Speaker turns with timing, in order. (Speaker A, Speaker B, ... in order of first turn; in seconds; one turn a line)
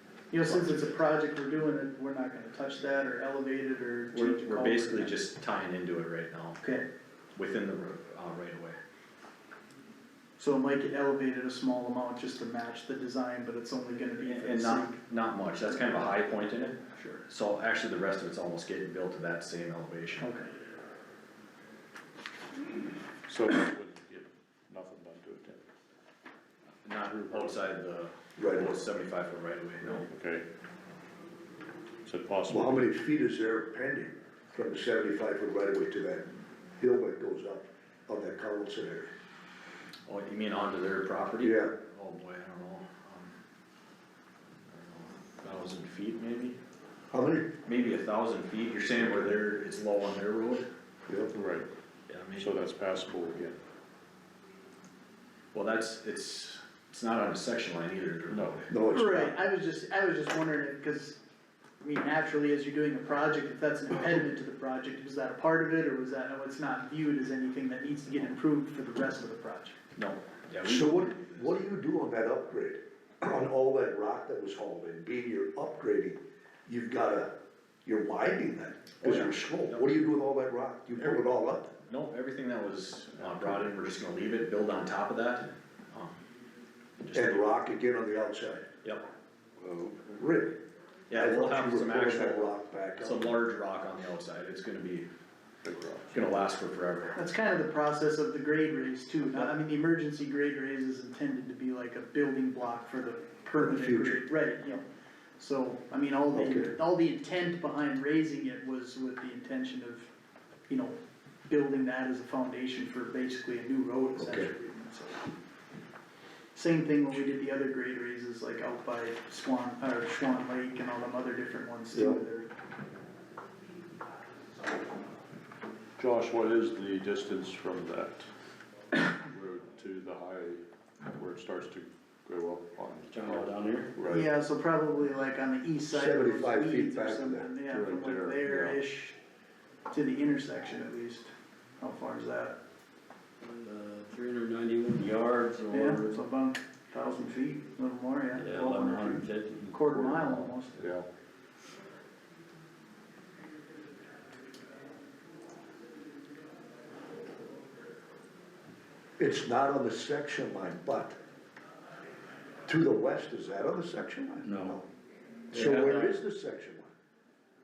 Speaker A: 0.3-5.2
Speaker B: 0.4-0.9
Speaker B: 4.1-6.6
Speaker A: 6.6-6.8
Speaker B: 7.3-8.8
Speaker A: 10.4-15.0
Speaker B: 14.2-20.3
Speaker A: 20.2-20.5
Speaker C: 23.2-25.6
Speaker B: 26.8-30.0
Speaker C: 27.1-27.6
Speaker D: 28.4-28.8
Speaker C: 29.8-30.4
Speaker C: 32.0-32.9
Speaker D: 32.5-39.1
Speaker B: 40.1-43.3
Speaker D: 41.4-41.7
Speaker B: 44.7-46.6
Speaker D: 47.1-47.5
Speaker B: 47.6-50.7
Speaker D: 51.1-51.3
Speaker C: 51.3-51.7
Speaker B: 52.1-52.5
Speaker C: 52.3-53.5
Speaker B: 55.5-58.7
Speaker C: 58.3-58.6
Speaker D: 58.7-59.3
Speaker A: 58.9-61.2
Speaker A: 61.8-69.8
Speaker B: 70.0-71.6
Speaker D: 70.6-77.3
Speaker D: 77.8-81.7
Speaker B: 79.0-79.8
Speaker B: 81.8-86.2
Speaker B: 87.0-87.5
Speaker D: 87.1-88.7
Speaker C: 89.6-90.2
Speaker D: 90.2-90.5
Speaker B: 91.1-95.1
Speaker D: 91.1-93.3
Speaker C: 95.6-96.3
Speaker B: 96.1-97.2
Speaker A: 97.1-104.8
Speaker D: 103.6-104.2
Speaker A: 105.4-110.1
Speaker D: 106.3-106.7
Speaker A: 110.7-111.0
Speaker A: 111.5-115.3
Speaker D: 114.2-114.5
Speaker A: 116.5-122.5
Speaker D: 121.9-122.2
Speaker C: 126.0-128.3
Speaker C: 129.0-134.3
Speaker E: 133.1-133.9
Speaker A: 134.1-139.2
Speaker D: 135.9-137.5
Speaker C: 137.7-138.8
Speaker A: 139.9-142.6
Speaker E: 143.4-146.2
Speaker A: 145.7-150.8
Speaker E: 148.3-149.8
Speaker C: 149.9-151.1
Speaker D: 159.2-161.2
Speaker D: 162.7-164.8
Speaker E: 164.4-164.8
Speaker E: 165.5-166.2
Speaker D: 165.5-166.9